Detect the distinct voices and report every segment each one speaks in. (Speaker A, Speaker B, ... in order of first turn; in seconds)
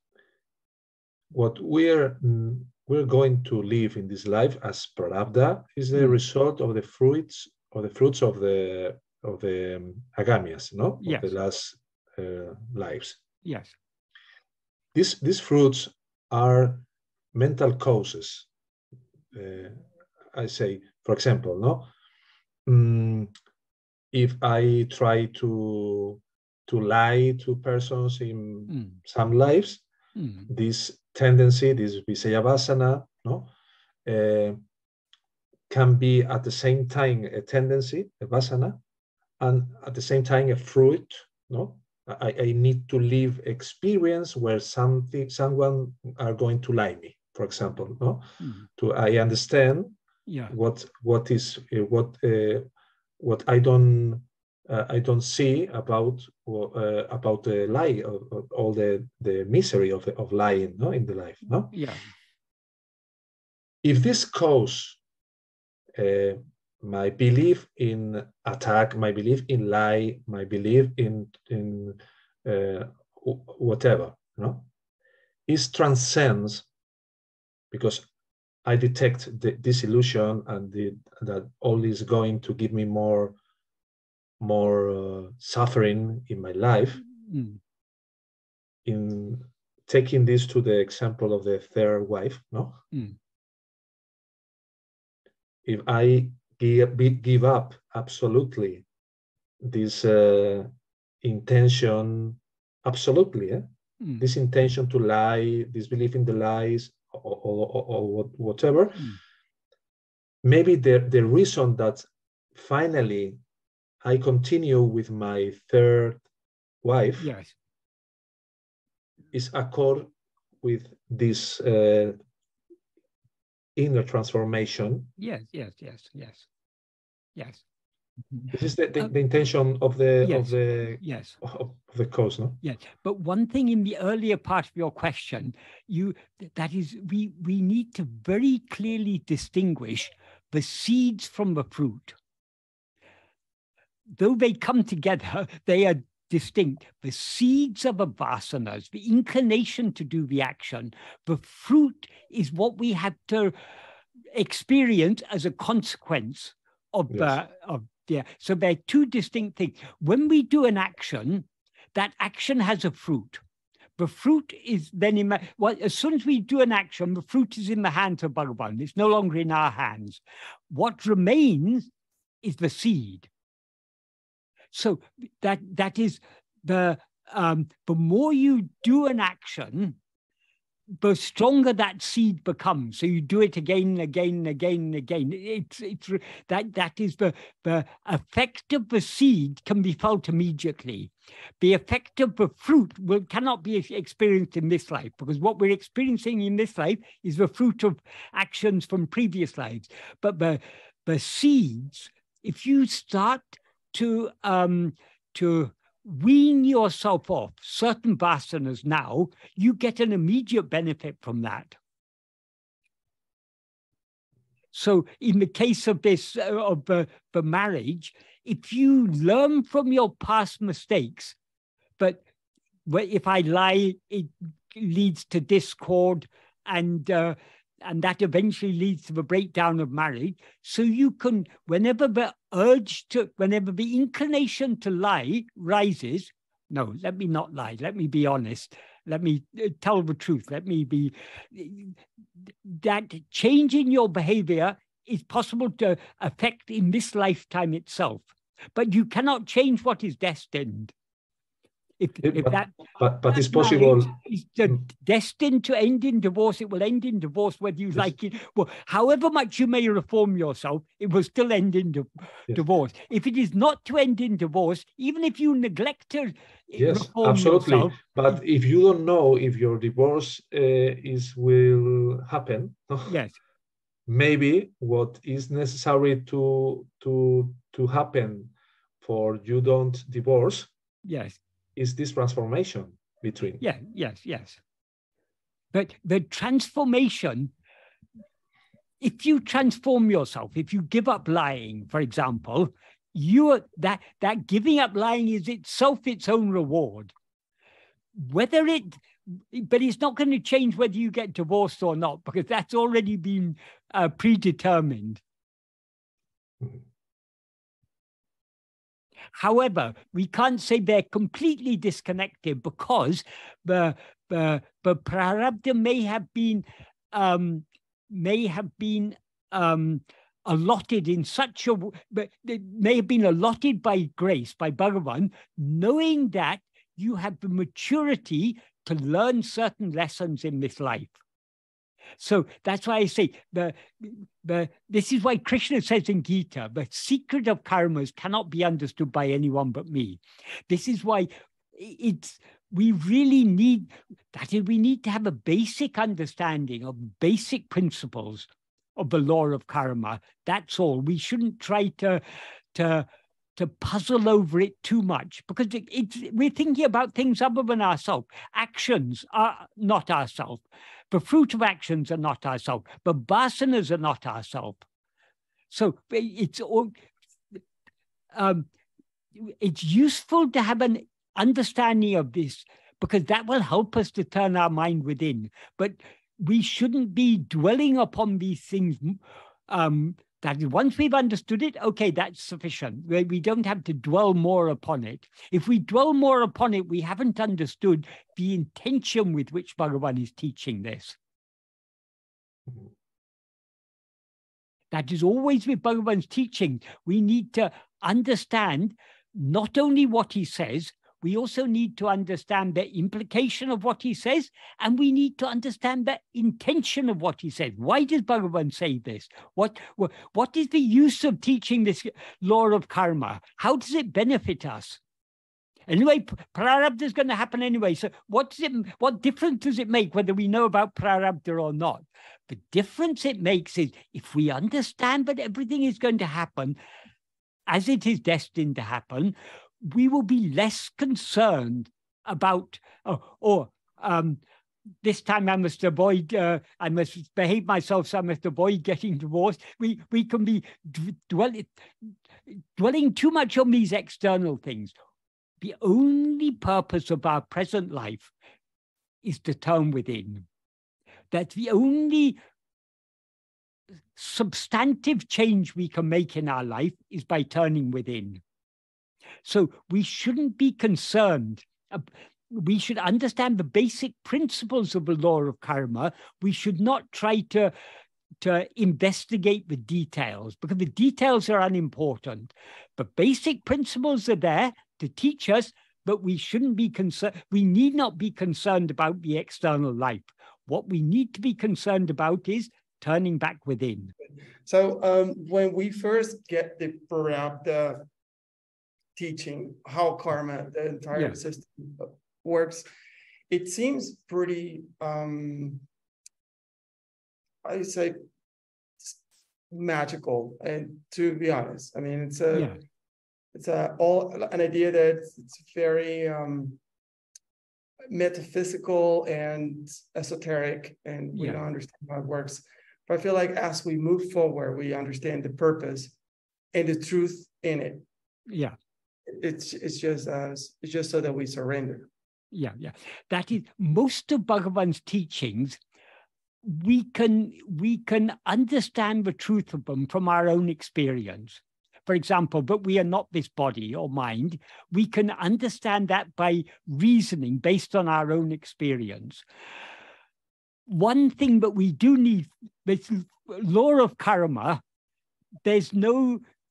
Speaker A: 1.3-13.2, 14.9-18.5, 19.3-21.9, 22.6-23.3, 24.1-29.8, 30.5-33.5, 34.0-34.6, 35.7-38.8, 39.4-50.0, 50.5-52.7, 53.2-61.7, 63.8-65.0, 65.9-74.7, 75.5-76.7, 77.7-78.0, 78.6-83.3, 84.4-87.0, 88.8-92.8, 95.6-98.8, 99.6-103.7, 104.2-109.1, 110.4-113.4, 114.0-116.2, 116.8-117.3, 119.3-120.1, 120.6-122.2, 123.8-125.1, 128.5-132.6, 157.1-157.4, 252.2-254.1, 266.8-273.1, 274.1-280.7, 281.8-283.6
Speaker B: 11.0-11.3, 13.4-13.7, 28.7-29.0, 30.1-30.5, 48.4-48.6, 50.3-50.5, 61.7-62.1, 87.2-87.6, 117.2-117.5, 125.2-126.5, 127.3-127.6, 130.2-131.4, 132.6-142.2, 144.1-153.5, 154.3-163.4, 164.0-171.9, 172.4-173.3, 174.7-180.0, 181.0-211.8, 214.7-221.3, 222.8-250.9, 252.0-268.0, 273.1-273.4, 281.1-281.4, 283.6-284.6, 285.7-287.5, 289.0-297.1, 298.1-305.2, 309.3-331.1, 332.2-352.2, 352.7-364.8, 365.7-366.9, 368.3-368.7, 369.4-391.2, 394.9-415.0, 415.9-426.8, 427.7-434.4, 435.0-444.9, 445.6-448.3, 449.2-450.4, 451.3-452.4, 454.1-458.4, 459.4-467.7, 468.4-484.1, 502.5-502.8, 511.4-511.6, 518.5-518.8, 522.5-525.8, 526.6-539.4, 540.9-544.8, 545.6-546.4
Speaker C: 484.6-488.1, 489.1-492.9, 493.5-495.8, 497.6-498.2, 499.7-502.8, 503.5-506.8, 508.1-516.1, 516.7-518.0, 519.3-522.1